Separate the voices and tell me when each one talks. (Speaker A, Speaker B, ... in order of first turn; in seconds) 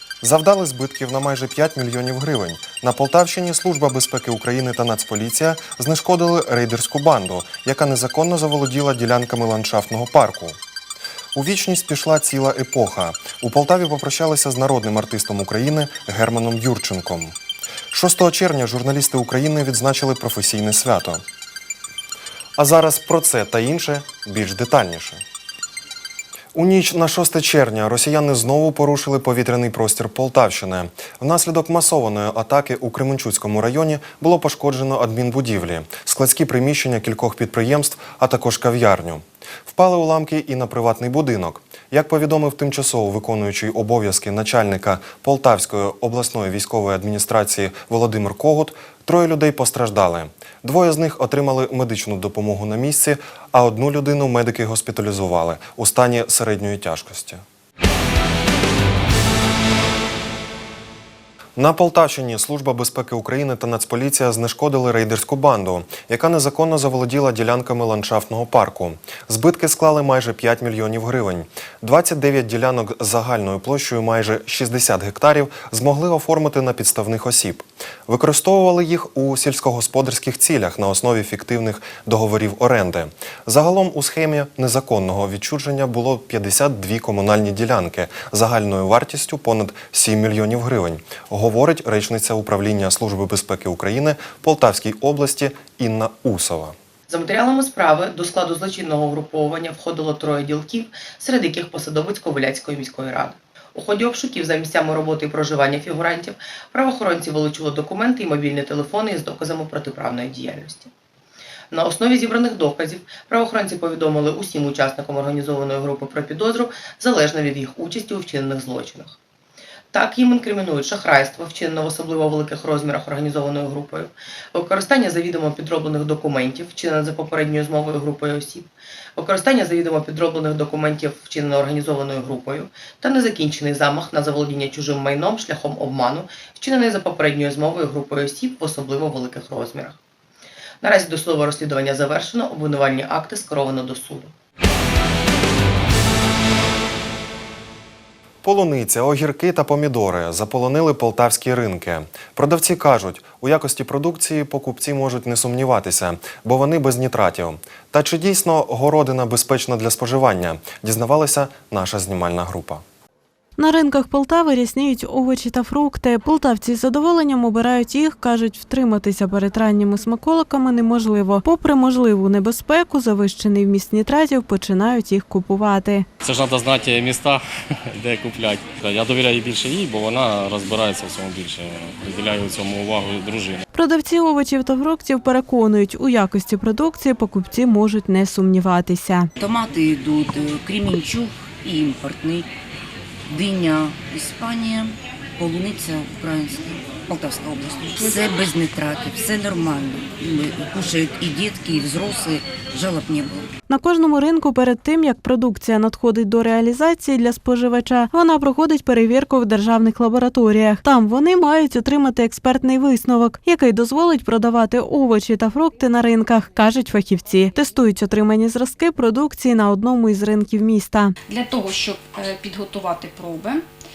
Speaker A: 0.2-10.6, 11.3-17.3, 17.9-21.2, 22.6-25.2, 26.5-57.4, 61.5-96.7, 148.4-162.8
Speaker B: 97.1-110.9, 111.7-119.1, 119.9-140.0, 140.8-144.3
Speaker C: 163.6-176.1, 183.7-189.3, 203.7-221.1
Speaker D: 176.2-183.6
Speaker E: 189.4-192.5, 193.3-203.5
Speaker F: 221.3-223.7